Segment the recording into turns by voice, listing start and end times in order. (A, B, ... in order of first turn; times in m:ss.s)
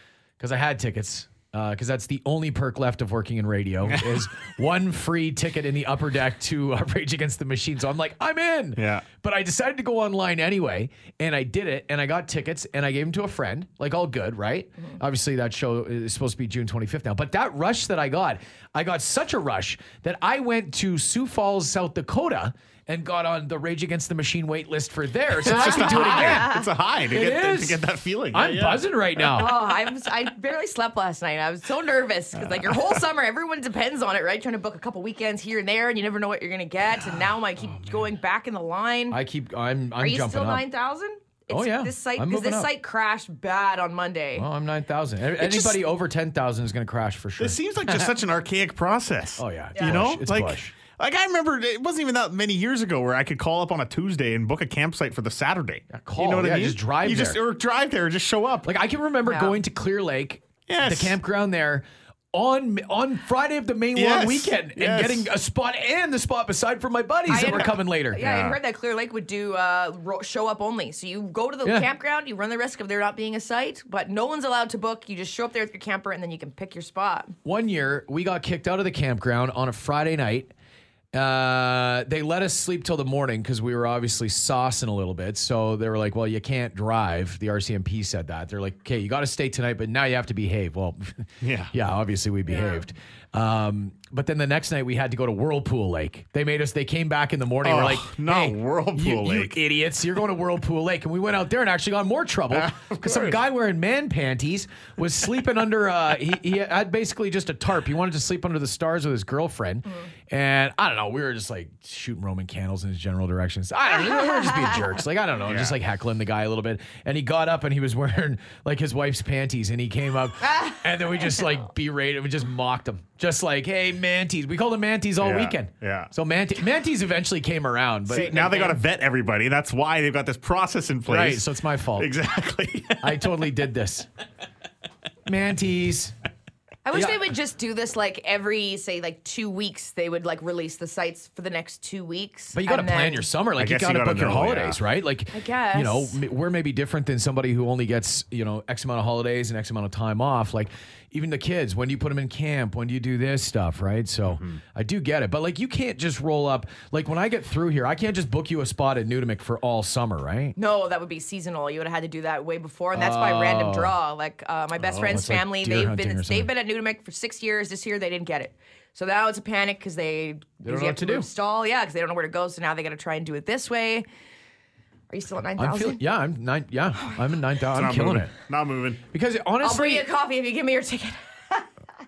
0:00.4-0:26.5 A
0:08.8-0:09.0 B
0:25.4-0:28.8 B
0:25.5-0:26.6 C
0:27.1-0:29.6 A
0:29.3-0:39.2 C
0:39.1-0:40.7 A
0:40.0-0:44.5 C
0:41.5-0:42.7 A
0:44.4-0:48.1 A
0:45.4-0:45.8 B
0:47.4-0:58.7 B
0:49.4-0:50.7 A
0:49.7-0:50.0 C
0:55.9-0:57.4 A
0:58.6-1:08.3 A
0:59.2-0:59.6 C
1:00.7-1:01.2 B
1:04.0-1:05.3 B
1:07.3-1:17.4 C
1:08.2-1:08.6 B
1:11.6-1:11.9 A
1:17.4-1:20.5 A
1:21.1-2:08.8 A
1:31.4-1:31.7 B
1:37.6-1:39.6 B
1:42.5-1:43.4 B
1:55.4-1:55.8 B
2:05.2-2:06.1 B
2:08.1-2:08.8 C
2:08.1-2:13.2 B
2:11.0-2:12.1 A
2:13.0-2:14.1 A
2:15.2-2:16.1 A
2:16.8-2:23.3 C
2:16.9-2:17.3 A
2:22.5-2:40.5 A
2:23.6-2:24.8 B
2:25.3-2:26.2 C
2:34.3-2:34.6 B
2:40.6-2:54.0 C
2:42.9-2:44.0 A
2:45.0-2:46.5 A
2:50.6-2:51.3 A
2:55.1-2:56.0 C
2:55.6-2:58.3 A
2:57.7-2:59.0 B
2:59.1-3:00.1 A
2:59.6-3:01.7 C